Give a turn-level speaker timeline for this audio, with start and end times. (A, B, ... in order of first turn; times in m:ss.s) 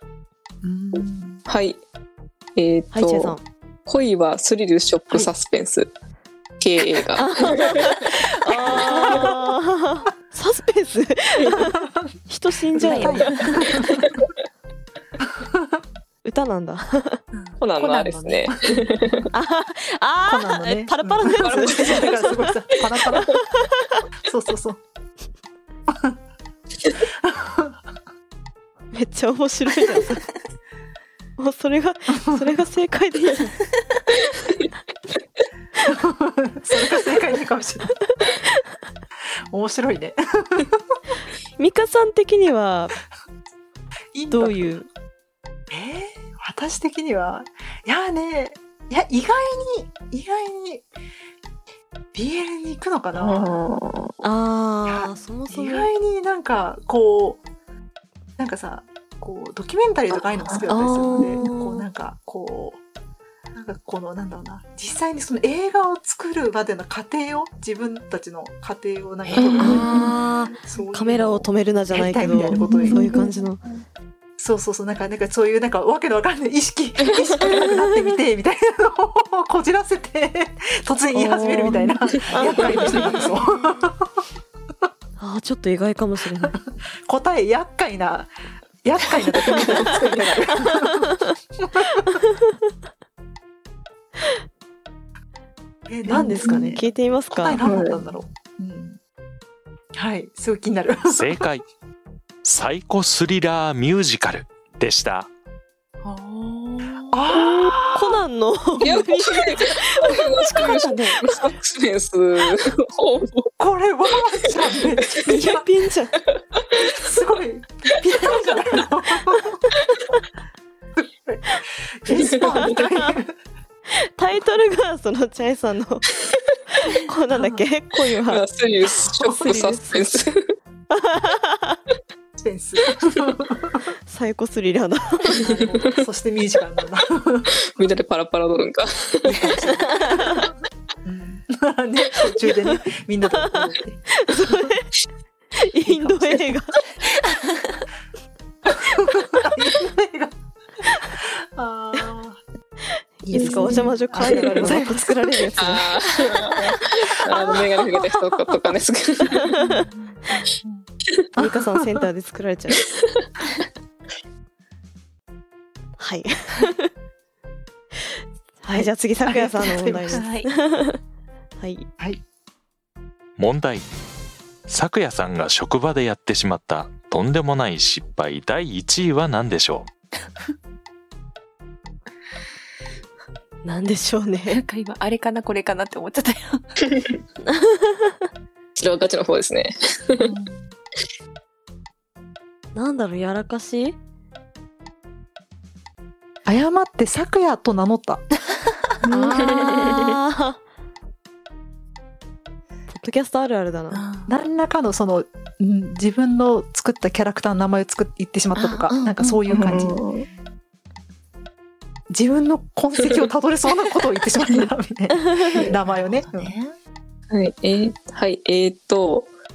0:00.6-0:01.4 A
0:01.5-0:01.8 B
0:02.6-0:05.9 B
0:02.9-0:03.4 C
0:06.6-0:09.4 B
0:07.2-0:11.8 C
0:08.6-0:09.4 A
0:11.5-0:11.9 A
0:12.3-0:13.4 C
0:12.7-0:14.1 A
0:12.8-0:13.7 D
0:15.3-0:15.6 A
0:16.2-0:17.2 C
0:17.3-0:17.6 D
0:17.6-0:19.3 B
0:17.8-0:19.1 A
0:19.3-0:22.5 C
0:20.3-0:23.4 A
0:21.4-0:22.2 B
0:23.2-0:24.0 C
0:24.2-0:24.8 A
0:25.9-0:26.2 A
0:27.2-0:27.7 A
0:28.9-0:30.2 C
0:31.4-0:33.6 C
0:32.1-0:32.4 A
0:35.9-0:37.9 A
0:38.2-0:38.5 C
0:39.5-0:40.8 A
0:41.6-0:42.9 C
0:44.1-0:44.7 A
0:44.3-0:44.9 C
0:45.7-0:50.8 A
0:52.1-0:53.6 A
0:53.2-0:54.1 B
0:54.2-0:55.9 C
0:54.8-0:57.4 A
0:58.4-1:02.8 A
1:00.7-1:01.8 C
1:03.5-1:13.3 A
1:09.3-1:10.1 D
1:09.4-1:10.1 B
1:09.6-1:13.6 C
1:12.6-1:13.3 B
1:14.4-1:24.0 A
1:17.6-1:18.0 C
1:21.1-1:23.1 C
1:25.2-1:26.6 C
1:26.4-1:28.3 A
1:28.8-1:32.1 A
1:30.6-1:31.1 C
1:32.0-1:32.3 C
1:35.9-1:39.0 A
1:36.1-1:37.6 C
1:37.6-1:38.0 B
1:39.9-1:41.4 A
1:41.1-1:41.6 E
1:42.4-1:45.3 E
1:46.0-1:47.2 D
1:47.1-1:48.2 A
1:47.3-1:50.3 C
1:48.8-1:53.5 B
1:50.2-1:51.4 D
1:53.6-1:55.7 A
1:55.2-1:56.1 C
1:56.6-1:57.0 B
1:56.8-1:59.6 A
2:01.0-2:03.3 A
2:02.2-2:02.6 B
2:02.5-2:03.2 C
2:03.9-2:06.0 C
2:06.7-2:08.4 C
2:07.3-2:07.6 A
2:08.2-2:10.5 B
2:09.0-2:09.5 A
2:09.1-2:10.1 C
2:10.9-2:11.8 C
2:12.4-2:13.8 A
2:14.1-2:15.4 C
2:15.3-2:17.5 A
2:17.6-2:19.6 B
2:19.2-2:20.0 D
2:20.0-2:20.5 A
2:20.2-2:20.4 C
2:21.0-2:24.7 A
2:23.4-2:24.9 C
2:25.6-2:26.7 C
2:27.2-2:27.8 D
2:28.6-2:30.3 A
2:31.5-2:32.4 A
2:33.2-2:35.5 A
2:33.3-2:37.6 C
2:33.4-2:33.7 D
2:35.6-2:39.5 B
2:39.3-2:39.8 C
2:39.5-2:40.8 D
2:41.3-2:42.0 A
2:41.4-2:42.8 C
2:46.0-2:46.9 C
2:48.6-2:51.0 C
2:48.7-2:50.2 A
2:50.1-2:50.5 D
2:51.6-2:51.9 C
2:53.4-2:53.8 E
2:54.7-2:59.9 E
3:03.6-3:04.6 C
3:04.5-3:06.8 D
3:07.5-3:08.2 C
3:08.8-3:10.3 B
3:10.2-3:10.7 D
3:12.7-3:14.0 C
3:16.4-3:18.2 A
3:19.0-3:20.1 B
3:19.1-3:20.6 C
3:22.9-3:24.0 C
3:23.9-3:24.3 D
3:24.3-3:30.0 A
3:28.6-3:29.8 D
3:29.5-3:30.3 B
3:32.1-3:36.5 A
3:35.6-3:36.7 D
3:37.3-3:39.3 B